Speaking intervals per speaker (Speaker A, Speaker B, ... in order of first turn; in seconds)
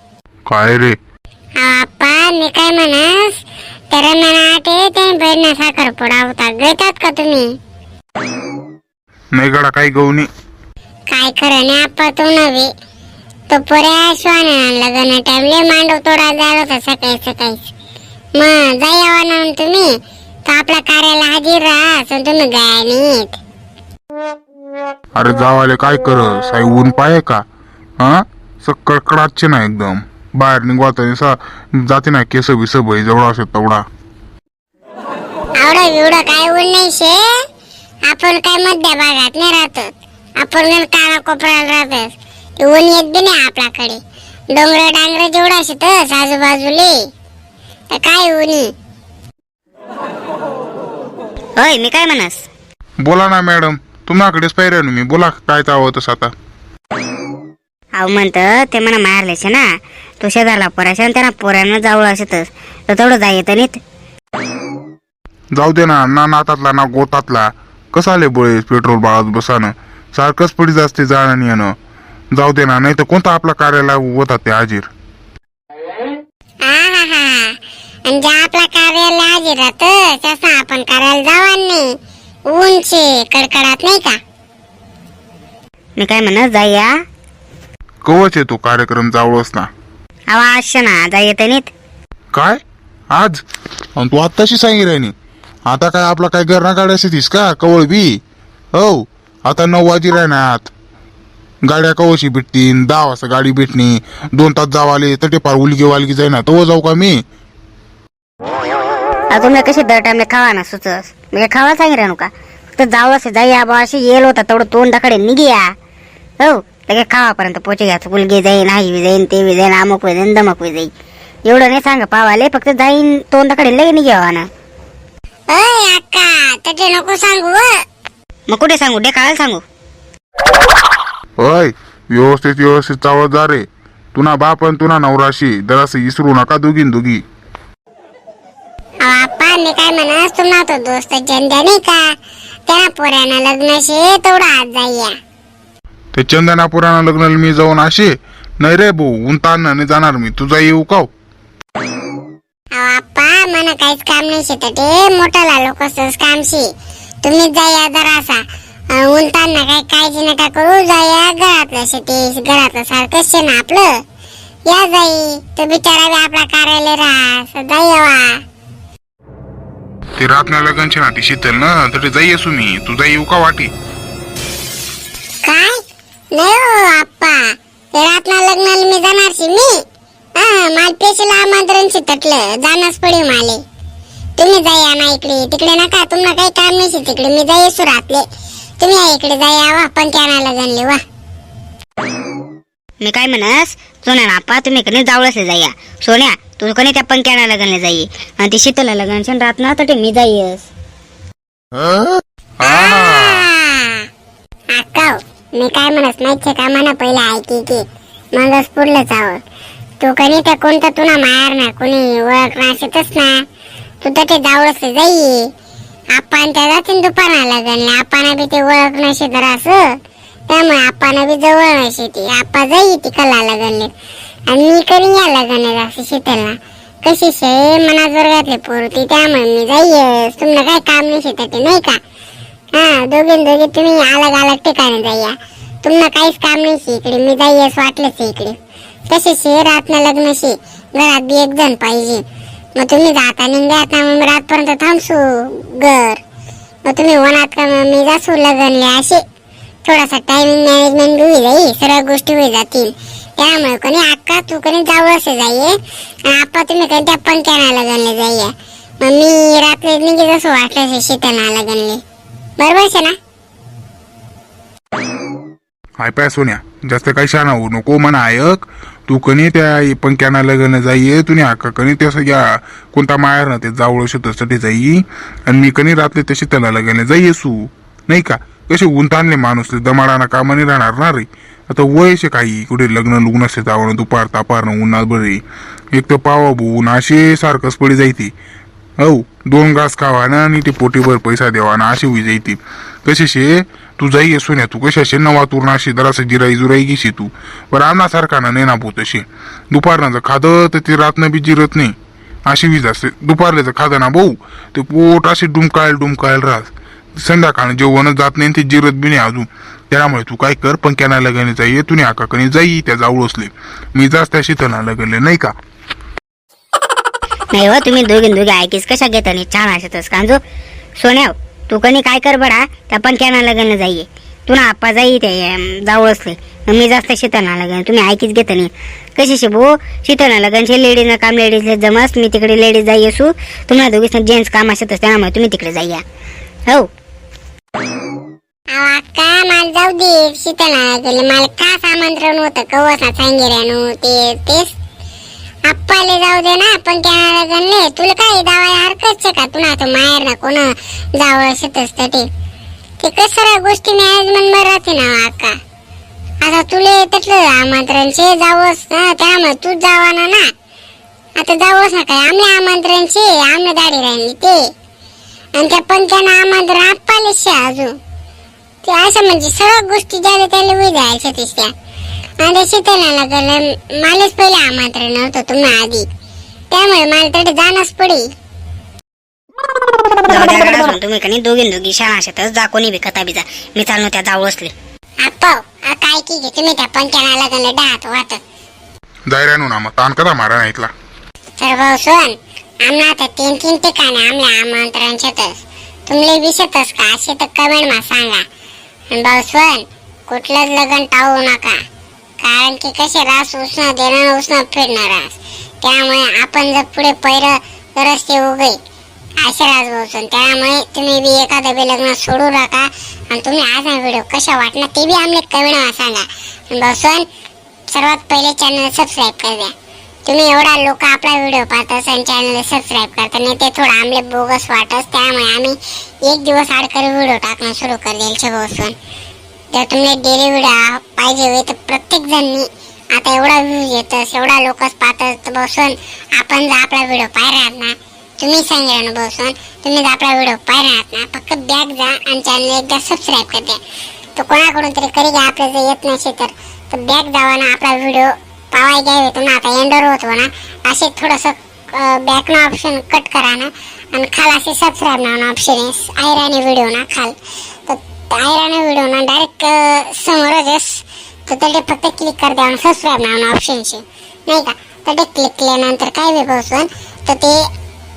Speaker A: 0.5-0.9, 9.4-10.3, 25.2-27.4, 28.0-33.8, 53.0-56.3, 65.6-71.7, 72.3-74.9, 88.1-89.7, 92.3-92.6, 93.1-93.4, 94.0-95.1, 95.7-98.1, 98.8-100.7, 101.7-107.2, 131.4-137.2, 146.2-151.1, 170.2-173.7, 202.6-203.5, 266.0-285.4, 285.9-288.3, 289.0-301.9, 302.5-315.5, 389.3-390.9
Speaker B: 1.6-3.4, 3.9-7.5, 11.1-12.7, 13.5-17.6, 18.4-19.9, 20.5-23.4, 35.6-37.2, 38.1-39.9, 40.4-44.0, 44.5-47.0, 47.9-48.7, 76.7-77.5, 78.1-81.8, 82.5-84.2, 125.5-127.7, 139.0-142.0, 142.7-145.1, 152.7-156.7, 157.2-158.4, 158.9-163.9, 164.7-168.4, 175.4-175.8, 176.3-177.4, 177.9-179.7, 180.4-183.6, 184.4-188.2, 188.8-191.0, 202.6-204.1, 204.7-207.8, 208.3-209.4, 210.0-213.4, 214.0-215.5, 216.2-219.8, 220.5-223.9, 224.5-232.0, 232.7-238.6, 239.1-242.2, 242.8-246.2, 246.9-249.2, 249.8-255.7, 256.3-262.0, 262.6-263.2, 338.7-344.7, 345.7-352.3, 353.0-355.6, 356.4-360.5, 361.4-364.6, 365.6-367.9, 368.9-371.7, 372.4-376.1, 376.7-378.2, 385.2-388.4, 391.6-398.4, 399.1-401.8, 402.4-408.8, 409.4-417.3, 417.9-419.7, 420.3-428.9, 429.7-443.8, 444.4-457.4, 457.9-467.6
Speaker C: 51.6-52.5, 58.0-59.6, 60.2-63.8, 86.0-86.9, 90.3-91.7, 109.3-115.7, 116.4-120.9, 121.5-124.5, 128.5-129.6, 193.0-200.7, 317.5-320.4, 321.0-336.0, 380.3-384.7